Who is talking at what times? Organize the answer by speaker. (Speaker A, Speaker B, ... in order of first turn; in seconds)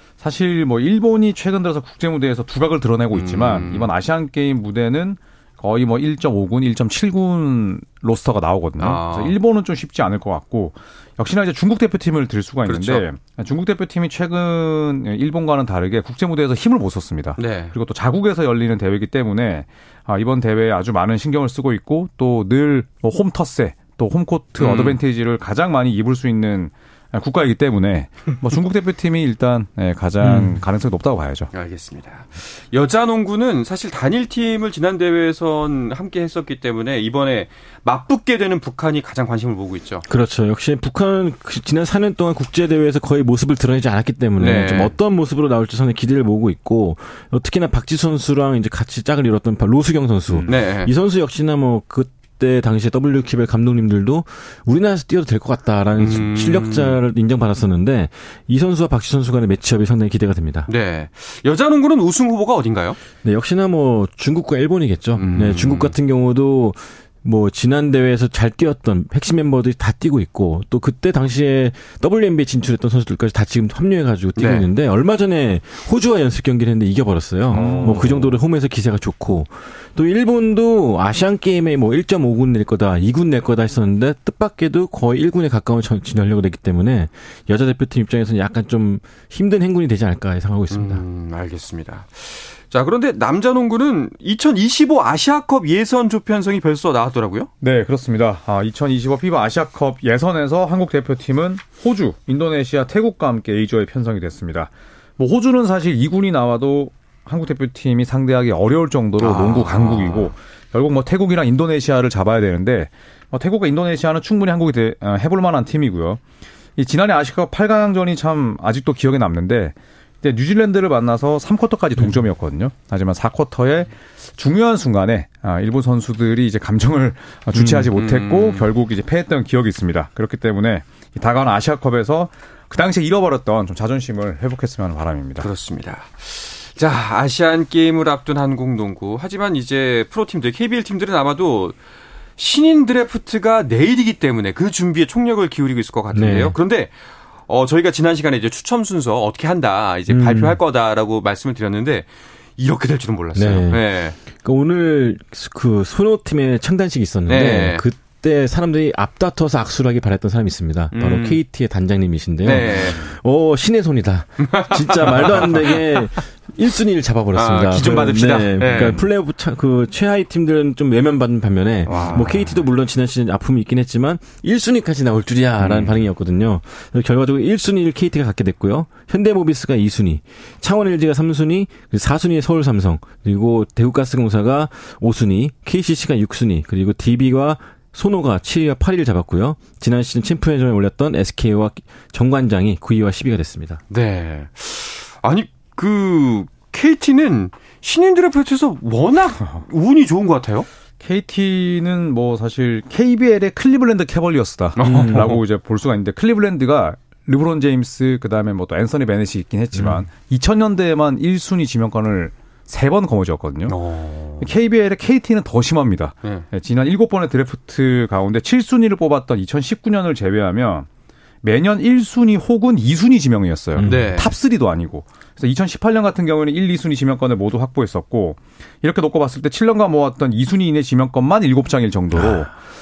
Speaker A: 0.2-31.5, 77.5-78.2, 97.6-116.2, 116.8-135.5, 201.0-213.8, 214.4-220.9, 221.4-232.5
Speaker B: 3.1-3.9, 8.8-9.3, 12.7-13.1, 17.4-17.7, 24.6-25.0, 31.5-40.0, 44.4-44.9, 50.5-50.9, 56.0-57.0, 60.7-63.0, 65.2-65.9, 74.3-74.7, 77.5-78.3, 90.7-97.5, 109.2-110.3, 127.9-128.7, 135.4-141.8, 142.4-146.9, 147.5-154.2, 157.3-157.8, 160.9-161.4, 162.4-163.1, 164.4-165.9, 167.3-169.0, 171.9-172.7, 175.6-176.0, 193.9-200.7, 204.8-205.4, 213.7-214.5, 223.8-224.3
Speaker C: 30.2-30.6, 40.1-60.7, 63.2-91.0, 127.5-127.9, 146.1-146.5, 150.1-150.6, 153.3-193.8, 204.8-205.3, 209.7-210.0, 223.8-224.1